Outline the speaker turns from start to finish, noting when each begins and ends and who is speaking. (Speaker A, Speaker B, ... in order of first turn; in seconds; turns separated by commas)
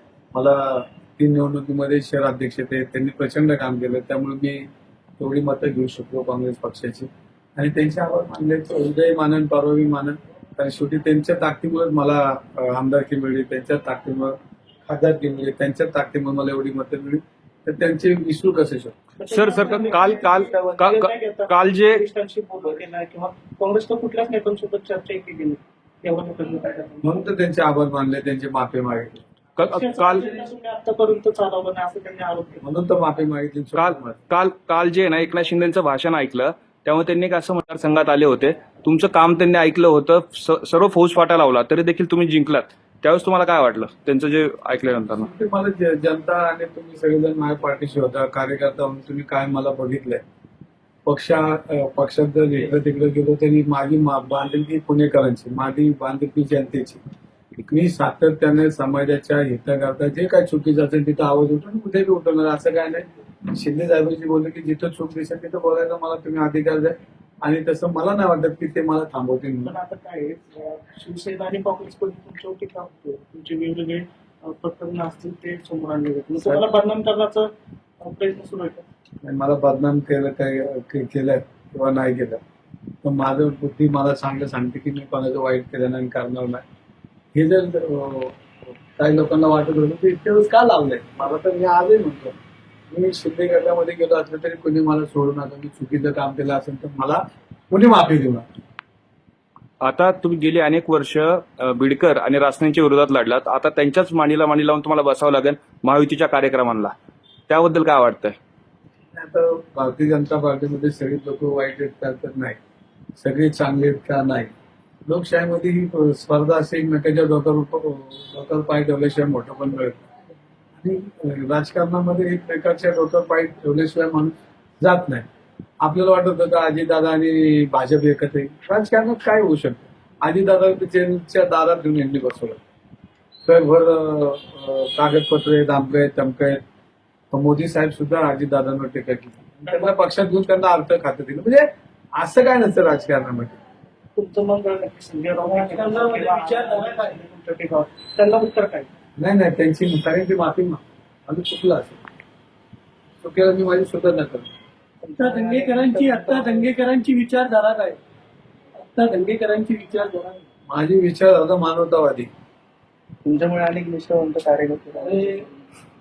Speaker A: 0.3-19.0, Speaker B: 19.2-27.1, Speaker C: 19.3-22.0, Speaker A: 27.0-29.2, Speaker C: 29.6-30.4, Speaker B: 29.6-32.6, Speaker A: 32.6-34.2, Speaker C: 33.8-45.3, Speaker A: 45.1-50.2, Speaker A: 51.1-57.0, Speaker A: 57.7-69.8, Speaker B: 69.7-78.8, Speaker A: 79.2-82.4, Speaker A: 83.0-86.6, Speaker A: 87.3-92.4, Speaker A: 92.9-98.5, Speaker C: 99.8-106.9, Speaker C: 107.5-108.4, Speaker A: 109.1-112.6, Speaker A: 113.2-114.5, Speaker A: 115.1-120.1, Speaker A: 120.8-125.3, Speaker A: 125.8-132.6, Speaker A: 133.4-136.6, Speaker A: 137.3-143.6, Speaker B: 139.7-140.0, Speaker B: 144.2-148.9, Speaker D: 145.5-147.1, Speaker A: 149.2-152.0, Speaker A: 153.2-154.5, Speaker B: 155.1-156.0, Speaker E: 155.2-156.7, Speaker D: 155.4-158.0, Speaker D: 158.8-160.4, Speaker A: 160.7-162.3, Speaker E: 163.2-165.5